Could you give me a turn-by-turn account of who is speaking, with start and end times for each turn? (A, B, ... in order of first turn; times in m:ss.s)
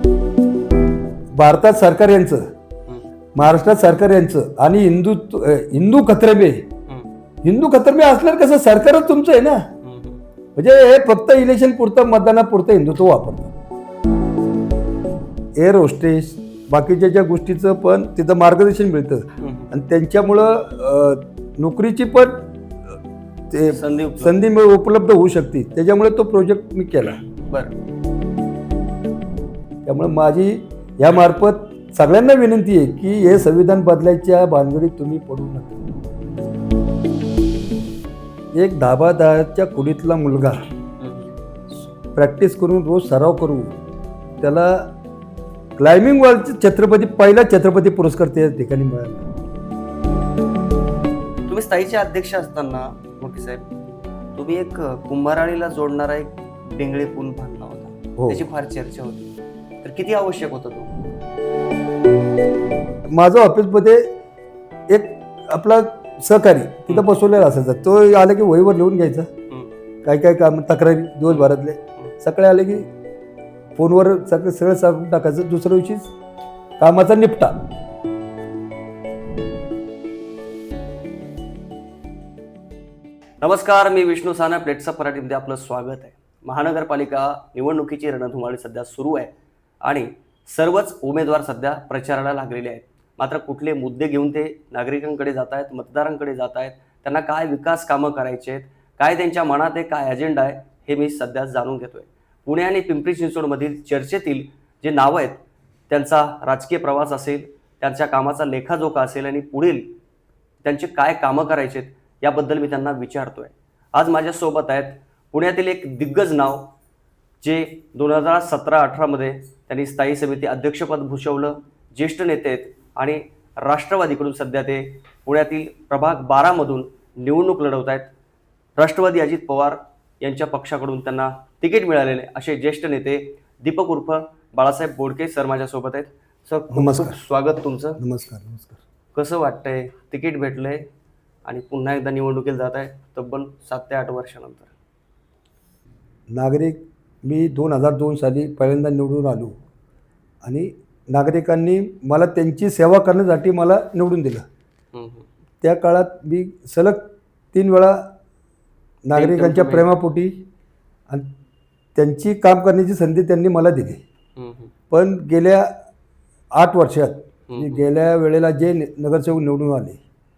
0:01.3-0:02.5 A
0:03.4-0:06.7 A
0:07.4-0:09.7 A
0:09.8-0:10.2 B
0:10.6-0:13.5 A
0:15.6-0:22.5 A
0:19.4-0:19.7 B
0:23.5-0:27.2 A
0:23.7-0:24.4 B
0:27.4-0:27.7 B
0:29.8-0:35.8 A
0:38.5-0:40.6 A
0:41.0-0:41.3 B
0:42.1-0:43.8 A
0:44.4-0:44.9 A
0:45.8-0:49.2 A
0:51.5-0:53.7 B
0:54.4-1:00.9 B
0:58.2-0:58.5 A
1:03.1-1:04.2 A
1:04.9-1:09.3 A
1:10.0-1:12.9 A
1:11.3-1:12.1 B
1:13.8-1:16.1 A
1:16.8-1:17.6 A
1:23.4-1:49.9 B
1:50.6-1:56.7 B
1:57.4-2:08.1 B
2:08.8-2:18.0 B
2:16.7-2:17.2 A
2:18.0-2:18.8 A
2:19.2-2:20.9 B
2:21.4-2:24.7 B
2:26.3-2:29.6 A
2:30.4-2:34.4 A
2:34.9-2:35.3 B
2:35.6-2:38.1 A
2:39.0-2:40.4 A
2:39.1-2:39.9 B
2:42.0-2:44.0 A
2:44.4-2:44.7 B
2:44.9-2:45.7 A
2:46.5-2:50.0 A
2:47.5-2:47.8 B